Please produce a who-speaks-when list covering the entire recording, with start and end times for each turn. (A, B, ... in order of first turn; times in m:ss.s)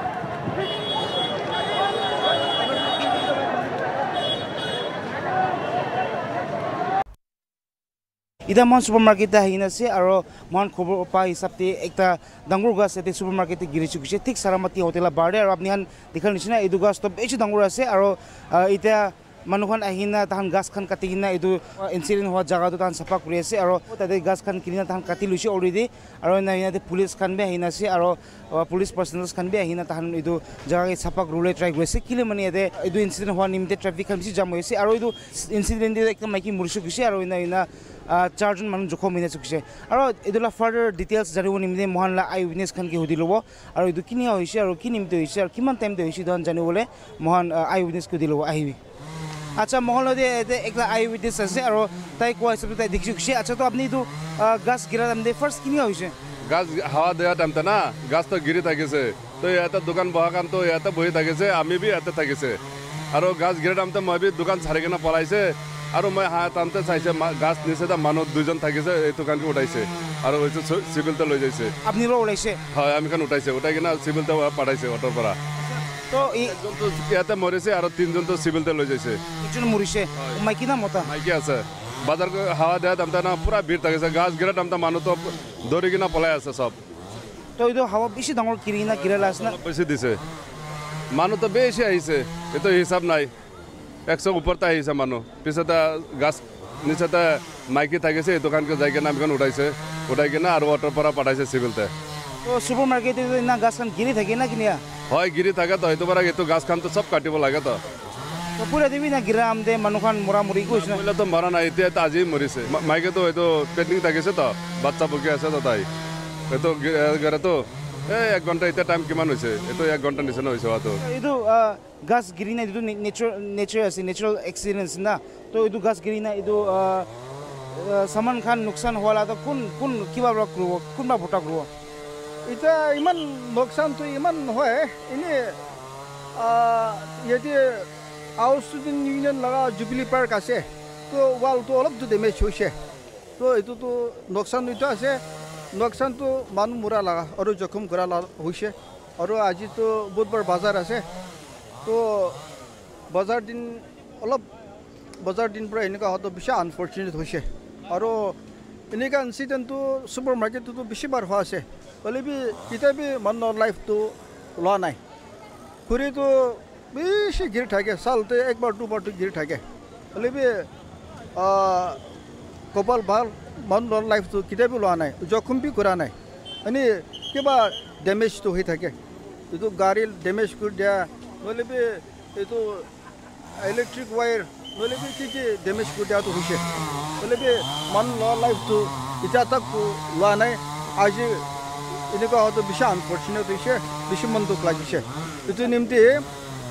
0:08.5-0:48.8 A
0:49.6-0:56.2 A
0:56.5-1:02.6 B
1:03.1-1:11.7 B
1:11.8-1:12.6 A
1:12.7-1:15.4 B
1:16.1-1:16.6 A
1:16.2-1:19.2 B
1:19.4-1:21.1 A
1:21.0-1:26.8 B
1:27.6-1:29.6 A
1:29.3-1:30.2 B
1:31.1-1:33.3 B
1:34.1-1:41.9 B
1:42.4-1:44.8 A
1:45.1-1:47.8 B
1:48.6-1:51.0 A
1:50.7-1:55.9 B
1:56.5-2:01.0 B
2:01.0-2:07.1 A
2:07.7-2:11.7 A
2:12.5-2:15.6 C
2:16.4-2:17.9 C
2:18.4-2:22.8 C
2:23.4-2:25.2 C
2:25.7-2:31.0 C
2:31.8-2:32.4 C
2:33.1-2:34.5 C
2:35.2-2:38.4 C
2:38.9-2:45.0 C
2:45.9-2:49.6 C
2:50.1-2:50.7 C
2:51.4-2:52.0 C
2:52.7-2:56.1 C
2:56.6-2:59.0 C
2:59.5-3:02.9 C
3:03.6-3:06.6 C
3:07.2-3:11.4 C
3:12.1-3:16.2 C